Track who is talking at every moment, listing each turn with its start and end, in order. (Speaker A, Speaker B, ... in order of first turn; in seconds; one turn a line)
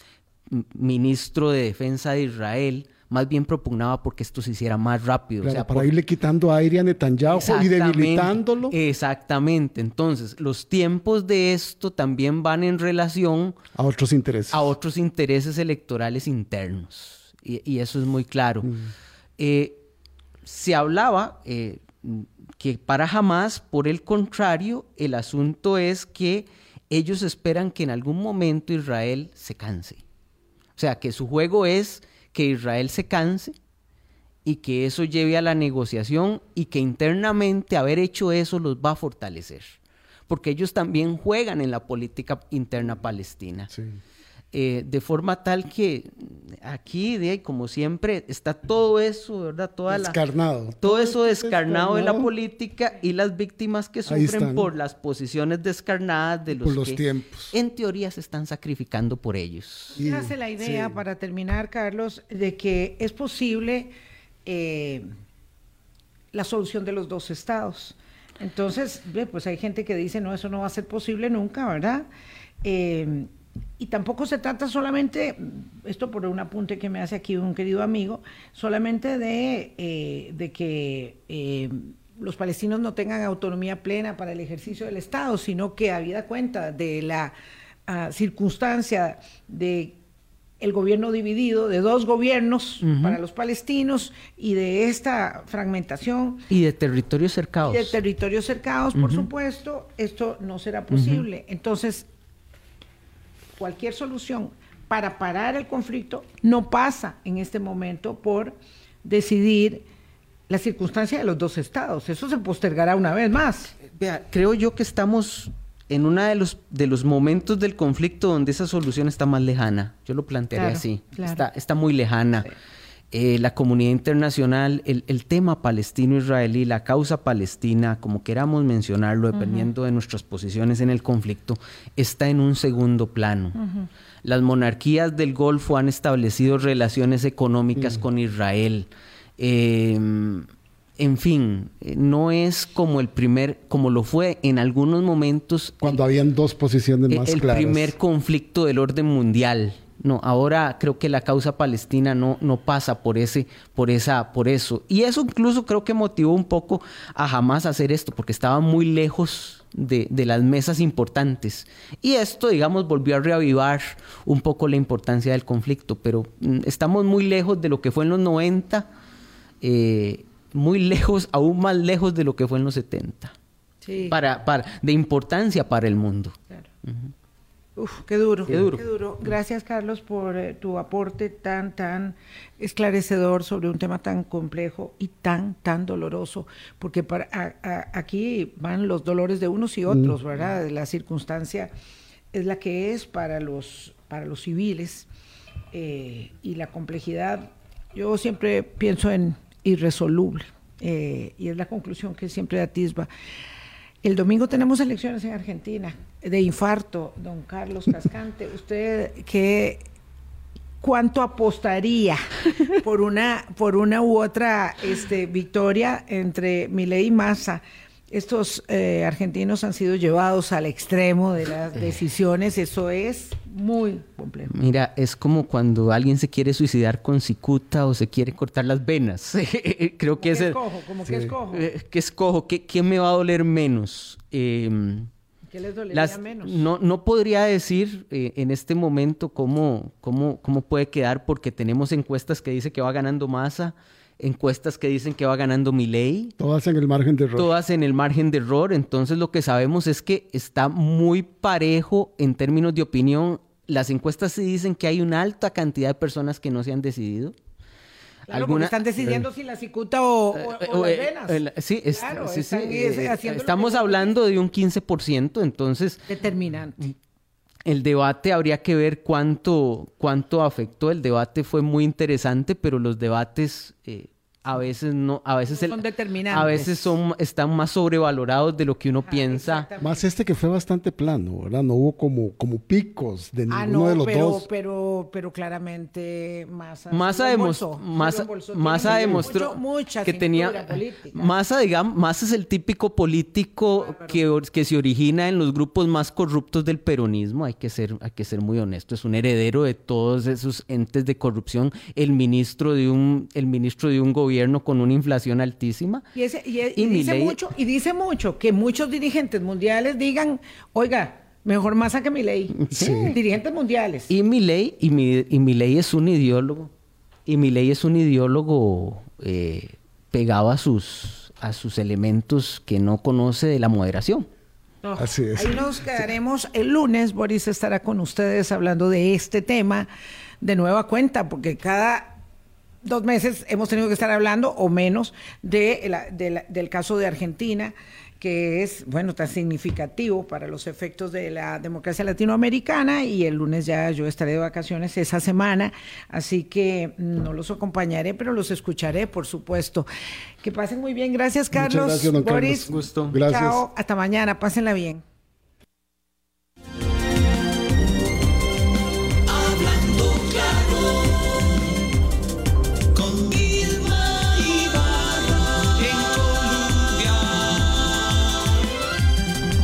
Speaker A: 0.5-5.9
Speaker B: 5.4-8.8
Speaker A: 7.2-13.6
Speaker B: 13.7-14.7
Speaker A: 14.5-18.7
Speaker B: 18.6-18.9
Speaker A: 19.4-19.8
Speaker A: 20.4-30.0
Speaker A: 30.8-33.5
Speaker A: 34.4-43.7
Speaker B: 43.7-44.0
Speaker A: 44.5-50.2
Speaker B: 49.9-52.3
Speaker A: 50.8-60.0
Speaker B: 54.1-54.7
Speaker B: 56.5-57.5
Speaker C: 59.9-63.9
Speaker B: 60.0-61.0
Speaker C: 64.5-65.1
Speaker C: 66.3-72.0
Speaker C: 72.6-87.3
Speaker C: 87.9-90.0
Speaker C: 90.6-96.5
Speaker A: 92.8-93.2
Speaker A: 96.5-98.0
Speaker C: 97.6-102.1
Speaker A: 98.9-99.3
Speaker A: 100.9-101.2
Speaker C: 103.6-109.8
Speaker C: 110.5-113.7
Speaker A: 113.9-122.5
Speaker C: 120.5-121.5
Speaker A: 123.1-133.6
Speaker C: 129.3-129.7
Speaker A: 134.2-140.5
Speaker A: 141.0-146.0
Speaker B: 145.8-147.9
Speaker A: 147.1-168.9
Speaker A: 169.6-173.3
Speaker C: 173.8-174.2
Speaker A: 174.1-177.1
Speaker C: 177.8-191.7
Speaker A: 178.5-178.8
Speaker B: 189.9-190.1
Speaker C: 192.3-195.1
Speaker C: 195.7-203.1
Speaker C: 204.0-209.8
Speaker C: 210.8-224.5
Speaker A: 224.5-230.6
Speaker C: 230.2-231.7
Speaker A: 231.4-235.1
Speaker C: 235.5-236.7
Speaker A: 235.9-246.3
Speaker B: 246.4-247.5
Speaker A: 247.3-257.3
Speaker C: 258.3-264.2
Speaker A: 258.3-259.2
Speaker A: 260.3-266.1
Speaker C: 266.1-266.9
Speaker A: 267.6-279.7
Speaker C: 275.5-276.9
Speaker C: 279.0-280.0
Speaker B: 279.8-284.5
Speaker C: 283.5-291.3
Speaker A: 286.9-306.1
Speaker B: 288.9-289.2
Speaker C: 293.8-294.2
Speaker C: 306.1-314.1
Speaker A: 306.8-307.4
Speaker A: 312.5-313.1
Speaker B: 312.7-313.2
Speaker A: 314.1-316.7
Speaker A: 317.2-324.3
Speaker C: 324.8-329.9
Speaker B: 325.0-326.0
Speaker C: 330.4-332.2
Speaker C: 332.8-349.9
Speaker C: 350.4-355.0
Speaker B: 351.5-353.6
Speaker A: 352.7-353.1
Speaker A: 359.3-361.4
Speaker A: 362.9-368.1